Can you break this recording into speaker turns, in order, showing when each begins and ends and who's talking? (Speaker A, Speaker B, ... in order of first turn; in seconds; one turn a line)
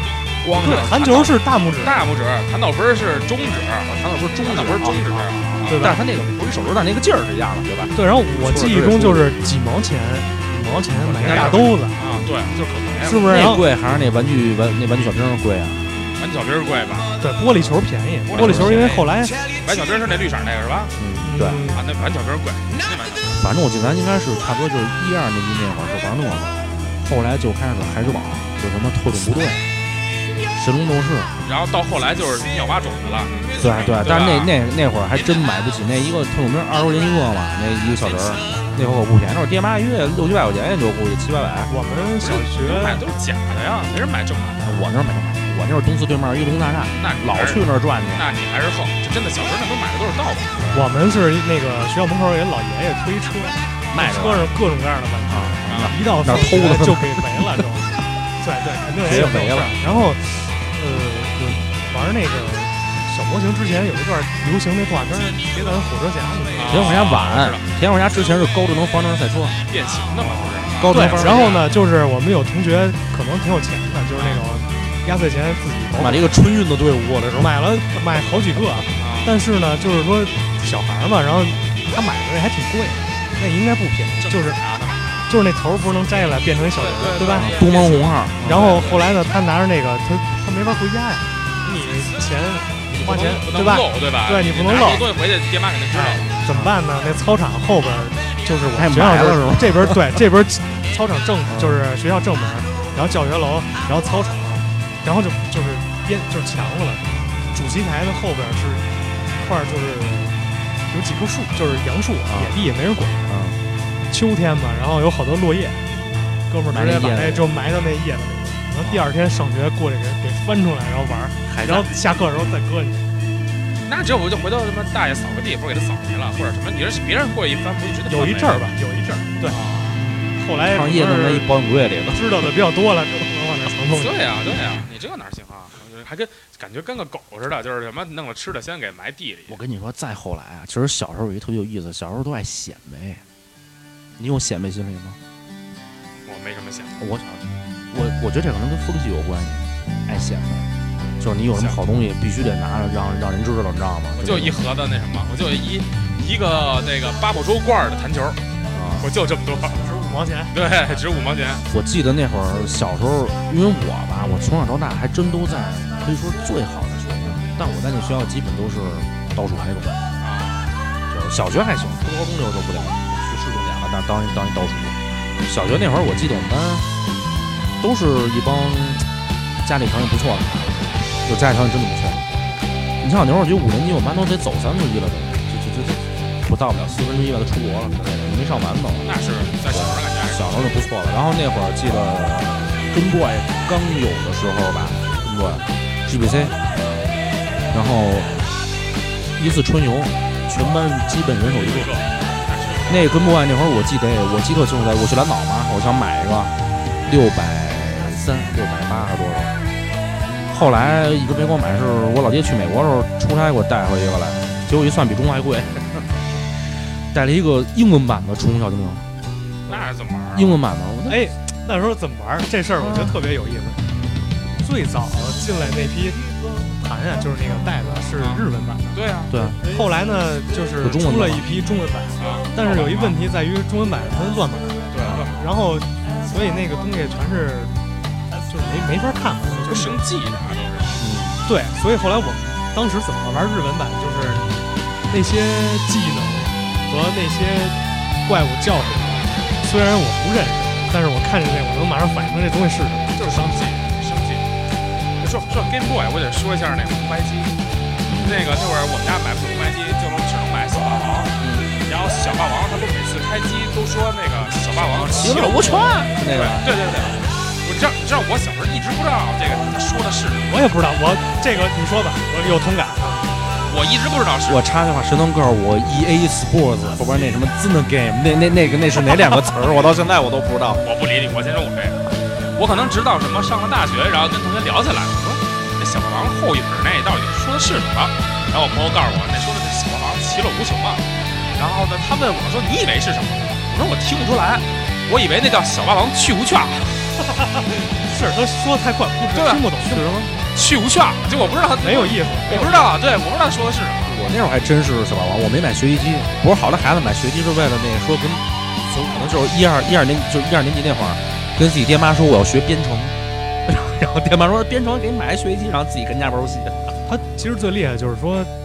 Speaker A: 0.5-1.0
Speaker B: 0.5-2.0
Speaker C: 0.5-5.9
Speaker A: 3.9-9.3
Speaker B: 5.7-6.1
Speaker B: 7.9-12.0
Speaker C: 11.1-13.3
Speaker A: 11.1-11.7
Speaker B: 13.0-13.6
Speaker A: 13.1-15.9
Speaker C: 16.2-17.1
Speaker B: 17.2-19.4
Speaker C: 18.3-19.1
Speaker A: 18.3-19.0
Speaker C: 19.6-20.9
Speaker A: 20.9-21.6
Speaker B: 21.2-21.8
Speaker C: 21.7-23.5
Speaker A: 23.4-29.7
Speaker A: 30.5-31.3
Speaker C: 31.4-34.5
Speaker A: 33.6-41.7
Speaker C: 35.1-35.4
Speaker B: 41.7-43.0
Speaker C: 42.1-44.8
Speaker A: 44.6-48.3
Speaker C: 47.0-50.6
Speaker B: 50.7-66.9
Speaker A: 53.9-54.5
Speaker A: 55.3-57.6
Speaker C: 55.7-56.0
Speaker A: 59.0-60.0
Speaker C: 66.5-67.7
Speaker A: 66.7-69.6
Speaker C: 69.7-71.7
Speaker B: 70.2-76.4
Speaker A: 70.7-71.6
Speaker C: 74.1-74.5
Speaker A: 76.0-77.6
Speaker B: 77.4-84.6
Speaker C: 79.0-79.3
Speaker C: 84.2-85.3
Speaker B: 85.3-87.7
Speaker C: 86.7-89.3
Speaker A: 87.3-88.9
Speaker B: 88.4-95.1
Speaker C: 92.9-96.4
Speaker B: 95.9-110.4
Speaker A: 96.5-96.7
Speaker A: 98.7-100.2
Speaker A: 101.5-101.8
Speaker B: 110.9-113.3
Speaker A: 112.3-112.6
Speaker A: 113.3-113.6
Speaker B: 114.1-115.9
Speaker B: 116.5-123.1
Speaker A: 116.7-117.5
Speaker A: 118.8-119.0
Speaker A: 121.5-121.9
Speaker C: 123.8-128.7
Speaker B: 128.1-131.5
Speaker C: 129.4-130.0
Speaker A: 130.7-132.2
Speaker B: 132.1-134.2
Speaker C: 133.9-139.6
Speaker A: 139.5-143.2
Speaker A: 144.2-145.2
Speaker C: 146.3-147.2
Speaker A: 147.0-154.6
Speaker C: 151.5-151.8
Speaker C: 154.2-158.4
Speaker A: 158.7-159.1
Speaker C: 159.0-159.8
Speaker B: 159.8-160.6
Speaker C: 160.5-161.6
Speaker A: 161.7-170.0
Speaker C: 170.2-170.8
Speaker A: 171.1-176.9
Speaker A: 177.8-179.1
Speaker A: 179.6-182.3
Speaker A: 183.0-189.1
Speaker C: 189.0-190.7
Speaker A: 189.7-196.6
Speaker A: 197.7-198.5
Speaker A: 199.4-201.9
Speaker C: 201.5-203.2
Speaker A: 202.9-209.6
Speaker A: 210.4-216.2
Speaker A: 216.9-219.1
Speaker C: 219.7-220.6
Speaker A: 220.3-221.2
Speaker B: 221.1-223.8
Speaker A: 222.8-223.2
Speaker B: 224.6-229.0
Speaker C: 228.2-229.3
Speaker A: 229.3-229.6
Speaker B: 229.6-237.8
Speaker A: 230.8-231.4
Speaker C: 232.2-233.2
Speaker C: 234.9-235.4
Speaker A: 235.0-235.3
Speaker B: 238.5-240.0
Speaker C: 239.6-241.0
Speaker A: 241.0-241.4
Speaker B: 241.4-244.6
Speaker B: 245.1-253.7
Speaker C: 253.2-254.4
Speaker C: 255.2-257.6
Speaker A: 258.1-258.5
Speaker C: 258.2-270.7
Speaker A: 261.4-261.7
Speaker A: 264.8-266.6
Speaker B: 270.5-273.4
Speaker C: 273.6-274.6
Speaker A: 274.4-280.8
Speaker C: 280.8-297.1
Speaker B: 297.4-300.2
Speaker C: 299.3-299.6
Speaker A: 299.8-300.3
Speaker C: 300.5-304.2
Speaker B: 301.8-302.9
Speaker A: 304.1-316.8
Speaker B: 317.1-318.5